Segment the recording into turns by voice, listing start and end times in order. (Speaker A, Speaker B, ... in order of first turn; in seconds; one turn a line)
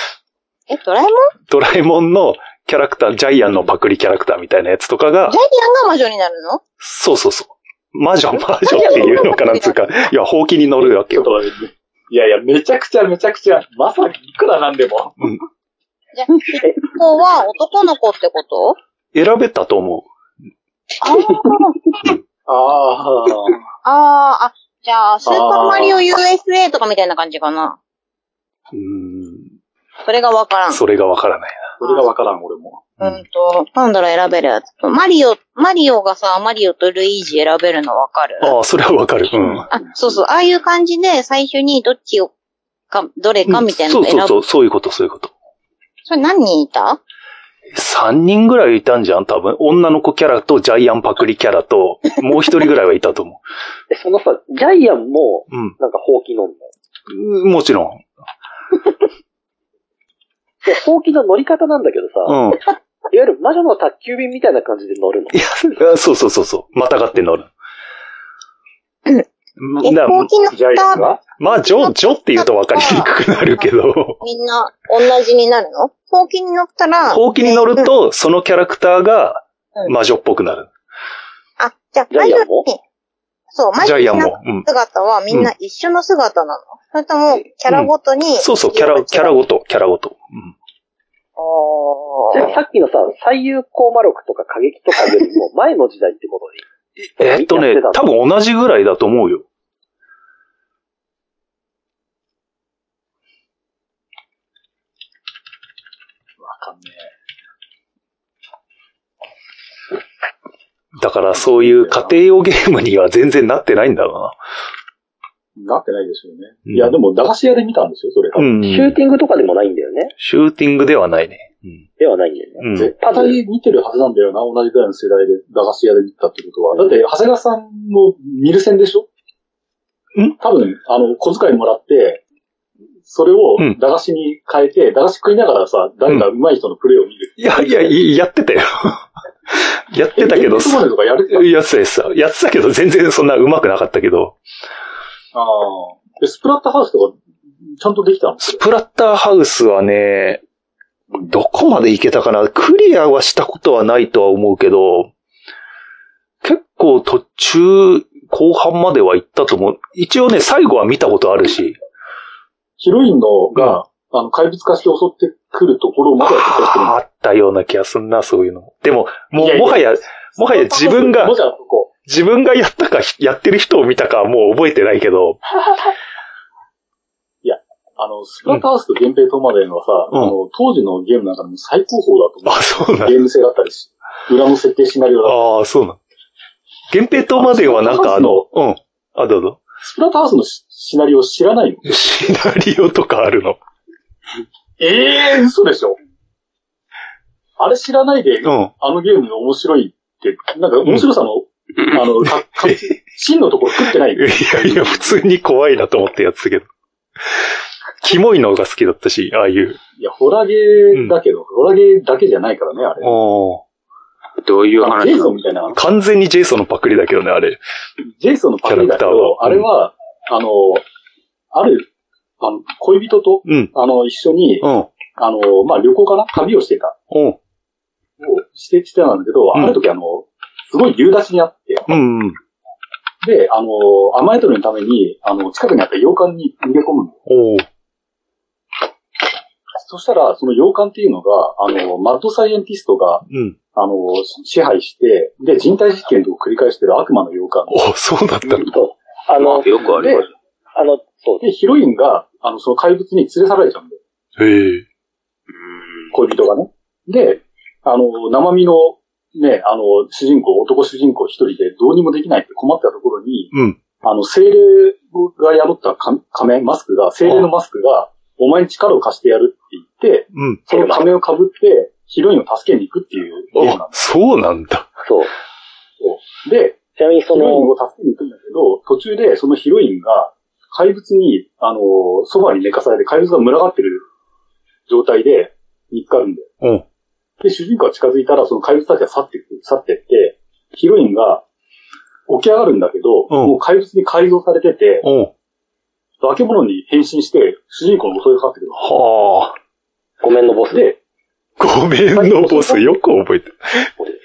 Speaker A: 0.7-1.3
Speaker B: 1.5-5.4
Speaker A: 5.3-6.6
Speaker B: 6.8-11.3
Speaker A: 8.6-9.8
Speaker C: 10.8-15.2
Speaker A: 16.1-18.8
Speaker B: 19.1-20.1
Speaker A: 21.0-21.9
Speaker C: 22.4-23.6
Speaker A: 23.8-27.8
Speaker C: 25.2-26.0
Speaker B: 28.7-29.5
Speaker A: 30.0-30.8
Speaker B: 30.7-31.7
Speaker C: 31.8-32.9
Speaker A: 33.0-38.5
Speaker B: 38.4-39.7
Speaker C: 39.4-40.2
Speaker A: 39.7-42.3
Speaker A: 42.9-44.4
Speaker B: 43.5-45.3
Speaker A: 46.0-47.0
Speaker B: 47.7-53.4
Speaker D: 53.9-56.7
Speaker B: 55.5-55.8
Speaker B: 57.1-58.0
Speaker D: 60.6-62.4
Speaker B: 62.2-62.6
Speaker D: 63.1-65.4
Speaker B: 65.3-67.5
Speaker B: 69.6-70.3
Speaker A: 69.8-73.7
Speaker C: 70.5-71.2
Speaker B: 71.4-74.2
Speaker A: 74.2-77.9
Speaker B: 77.1-80.7
Speaker A: 81.6-82.8
Speaker D: 82.1-82.7
Speaker A: 83.5-89.3
Speaker B: 83.8-84.7
Speaker B: 87.7-90.5
Speaker A: 91.4-92.5
Speaker D: 92.3-96.6
Speaker B: 97.0-99.4
Speaker D: 97.2-98.0
Speaker C: 106.4-107.0
Speaker B: 111.0-114.3
Speaker C: 111.3-112.2
Speaker C: 115.5-118.5
Speaker B: 116.7-116.9
Speaker B: 118.3-119.0
Speaker D: 118.6-120.1
Speaker B: 120.2-121.8
Speaker D: 122.0-123.4
Speaker B: 122.6-122.9
Speaker C: 122.7-129.1
Speaker C: 130.4-132.2
Speaker C: 133.0-138.0
Speaker B: 137.4-144.4
Speaker C: 140.2-141.5
Speaker C: 145.3-148.6
Speaker B: 148.4-150.4
Speaker B: 151.3-155.1
Speaker B: 156.4-161.8
Speaker C: 162.8-167.0
Speaker B: 166.2-171.4
Speaker C: 169.3-171.9
Speaker B: 172.1-175.4
Speaker C: 177.4-185.5
Speaker B: 182.4-183.2
Speaker B: 185.2-186.0
Speaker B: 186.9-189.6
Speaker C: 187.3-188.4
Speaker C: 189.8-192.0
Speaker B: 191.9-193.6
Speaker C: 194.8-196.0
Speaker C: 197.6-205.2
Speaker B: 198.4-198.7
Speaker B: 202.6-202.9
Speaker B: 204.2-206.7
Speaker B: 208.0-209.8
Speaker C: 210.0-213.2
Speaker B: 213.0-213.6
Speaker E: 214.4-215.4
Speaker C: 214.8-215.8
Speaker B: 215.7-217.6
Speaker C: 218.0-220.8
Speaker B: 218.7-219.7
Speaker C: 221.5-221.9
Speaker C: 222.4-226.9
Speaker B: 223.5-223.7
Speaker B: 224.6-224.9
Speaker B: 227.1-227.4
Speaker C: 228.2-231.9
Speaker B: 231.9-232.4
Speaker C: 233.2-237.2
Speaker B: 237.3-237.7
Speaker C: 239.8-247.8
Speaker B: 243.3-243.6
Speaker B: 247.7-248.7
Speaker D: 248.5-249.7
Speaker E: 249.3-250.3
Speaker C: 249.8-250.3
Speaker D: 250.7-251.4
Speaker C: 251.4-254.0
Speaker B: 254.4-254.8
Speaker E: 255.7-256.1
Speaker C: 256.1-274.0
Speaker B: 263.5-263.8
Speaker B: 270.3-270.6
Speaker D: 270.7-271.1
Speaker B: 273.6-274.9
Speaker D: 275.0-275.3
Speaker C: 276.0-276.8
Speaker D: 277.0-277.7
Speaker C: 277.3-284.0
Speaker C: 284.9-286.5
Speaker C: 287.4-291.4
Speaker C: 292.3-295.1
Speaker B: 293.3-293.6
Speaker B: 295.0-295.3
Speaker C: 296.2-298.9
Speaker B: 298.8-299.5
Speaker D: 300.2-301.0
Speaker B: 301.6-303.9
Speaker C: 302.1-302.9